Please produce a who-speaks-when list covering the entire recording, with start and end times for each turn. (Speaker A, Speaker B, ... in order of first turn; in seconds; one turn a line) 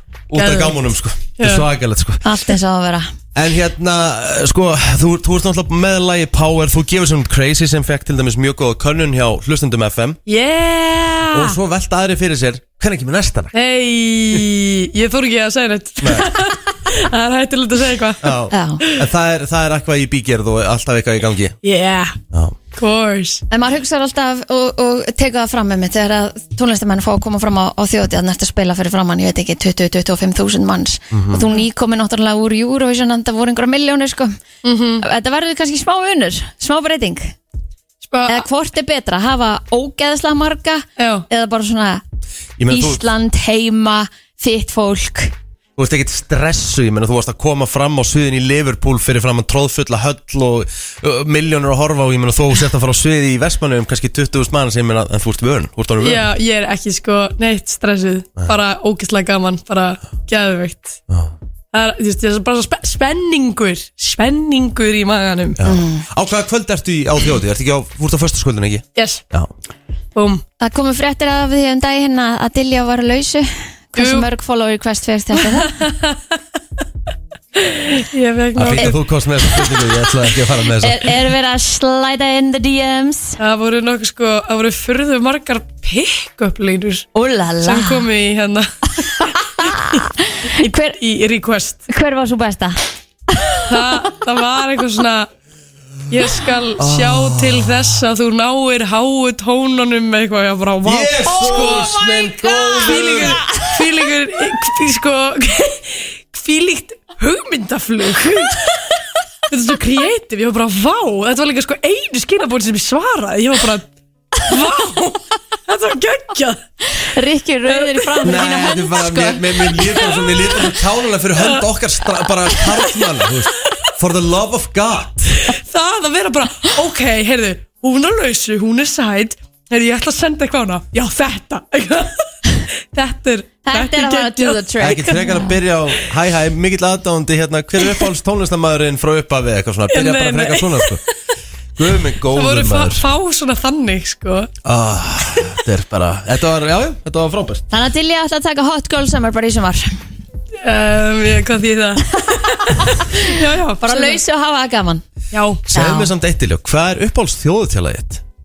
Speaker A: 0.3-2.2
Speaker B: 0.3-0.8
Speaker B: 1.4-1.6
Speaker C: 2.2-3.1
Speaker A: 3.3-10.2
Speaker B: 10.3-11.6
Speaker A: 11.3-13.5
Speaker B: 13.5-18.3
Speaker A: 16.0-16.3
Speaker A: 18.2-21.6
Speaker C: 18.5-18.9
Speaker B: 21.6-22.2
Speaker A: 22.3-22.6
Speaker B: 22.7-23.4
Speaker C: 23.5-34.3
Speaker A: 31.1-31.5
Speaker B: 34.6-35.0
Speaker C: 35.0-37.3
Speaker B: 38.0-38.4
Speaker C: 38.3-42.0
Speaker B: 41.0-41.2
Speaker A: 42.6-43.0
Speaker C: 42.7-45.3
Speaker A: 45.8-56.3
Speaker B: 56.0-61.0
Speaker B: 61.7-65.6
Speaker A: 65.6-69.5
Speaker C: 65.6-66.0
Speaker B: 68.9-69.2
Speaker B: 70.1-70.4
Speaker C: 70.6-75.8
Speaker B: 74.0-74.3
Speaker B: 75.3-76.4
Speaker B: 77.5-79.8
Speaker A: 78.5-81.1
Speaker C: 80.7-83.4
Speaker B: 83.4-87.1
Speaker C: 87.1-88.0
Speaker B: 87.6-89.3
Speaker C: 89.2-91.0
Speaker B: 90.5-91.8
Speaker C: 91.9-92.8
Speaker C: 93.3-94.0
Speaker B: 93.7-95.3
Speaker B: 96.1-108.9
Speaker A: 96.8-97.8
Speaker A: 100.8-103.6
Speaker B: 109.5-116.6
Speaker C: 116.8-120.2
Speaker B: 117.7-118.4
Speaker A: 118.2-125.5
Speaker B: 119.8-120.6
Speaker B: 122.5-123.1
Speaker B: 125.5-132.3
Speaker B: 132.9-135.3
Speaker C: 133.7-135.6
Speaker A: 134.8-141.0
Speaker B: 139.9-141.0
Speaker A: 141.8-143.1
Speaker B: 142.3-144.5
Speaker A: 144.6-147.6
Speaker C: 147.7-149.9
Speaker B: 150.6-154.2
Speaker C: 152.2-155.0
Speaker B: 155.3-155.7
Speaker A: 155.7-158.2
Speaker C: 155.7-156.1